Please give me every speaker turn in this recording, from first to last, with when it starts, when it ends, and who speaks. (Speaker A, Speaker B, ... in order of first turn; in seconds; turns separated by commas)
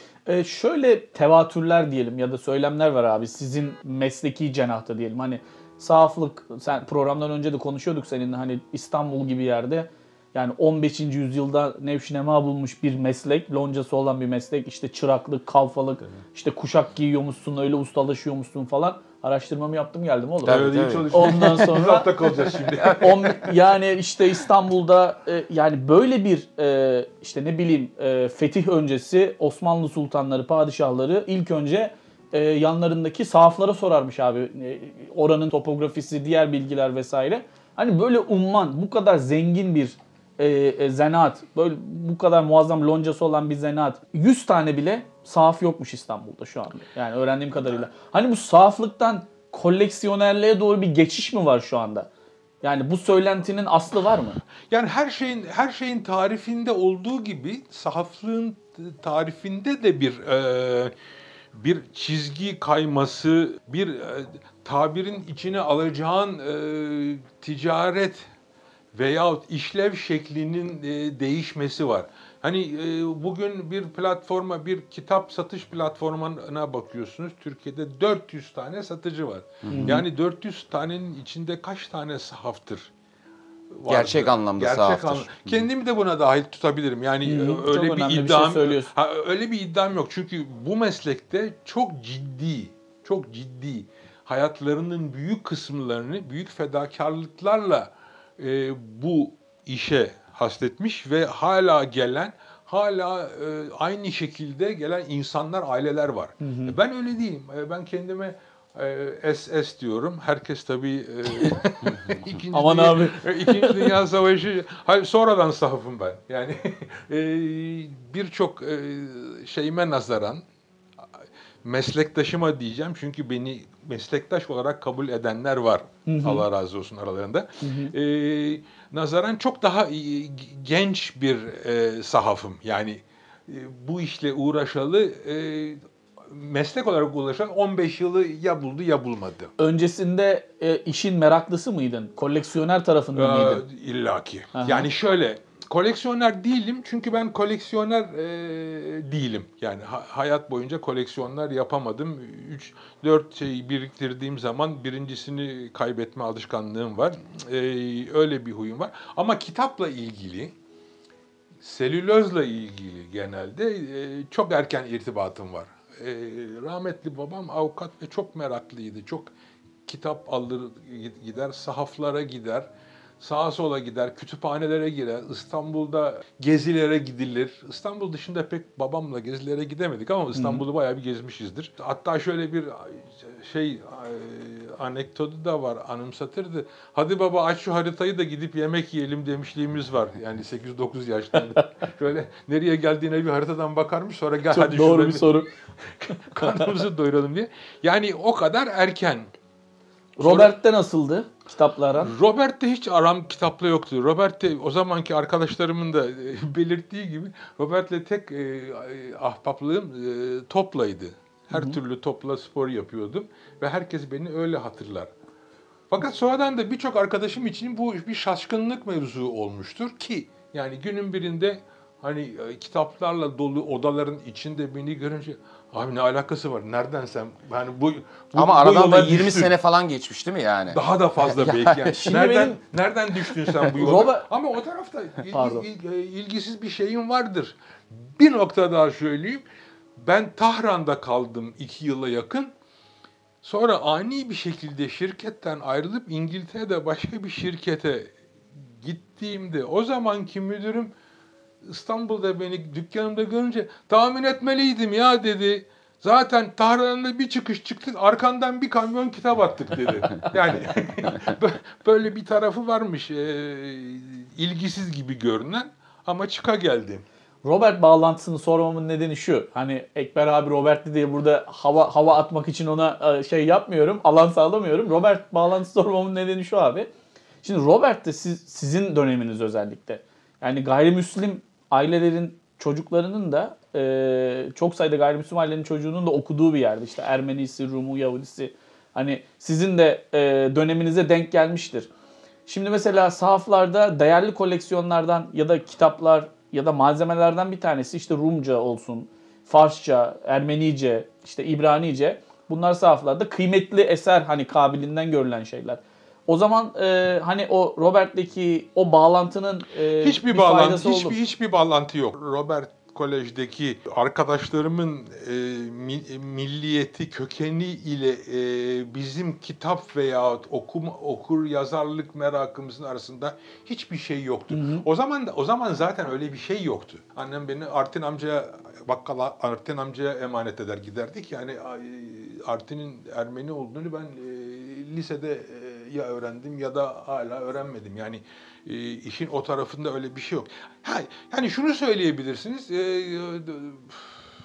Speaker A: 0.3-52.1, Speaker B: 20.4-21.2, Speaker C: 20.4-23.5, Speaker A: 52.6-54.4, Speaker C: 54.7-60.9, Speaker C: 61.5-68.2, Speaker C: 68.9-82.9, Speaker B: 79.6-80.0, Speaker A: 79.7-80.0, Speaker C: 83.7-120.4, Speaker B: 83.9-85.7, Speaker A: 87.2-88.9, Speaker A: 106.4-106.7, Speaker A: 112.5-113.9, Speaker C: 121.6-139.5, Speaker A: 126.0-126.5, Speaker A: 127.6-127.9, Speaker A: 139.6-143.6, Speaker C: 143.1-160.5, Speaker A: 144.5-144.9, Speaker C: 161.6-169.3, Speaker C: 169.8-172.7, Speaker C: 173.2-195.4, Speaker A: 180.3-180.6, Speaker A: 194.5-195.5, Speaker C: 196.0-199.3, Speaker A: 200.2-202.1, Speaker C: 200.2-200.5, Speaker C: 202.0-215.1, Speaker A: 211.5-211.8, Speaker C: 215.9-229.5, Speaker B: 228.3-232.0, Speaker C: 230.7-239.4, Speaker A: 231.9-232.6, Speaker B: 233.4-233.7, Speaker A: 233.7-234.3, Speaker A: 235.3-235.6, Speaker C: 240.0-242.5, Speaker C: 243.4-250.9, Speaker C: 251.6-267.0, Speaker A: 267.4-276.9, Speaker A: 277.4-291.9, Speaker A: 292.5-311.2, Speaker C: 310.0-344.2, Speaker A: 324.5-324.9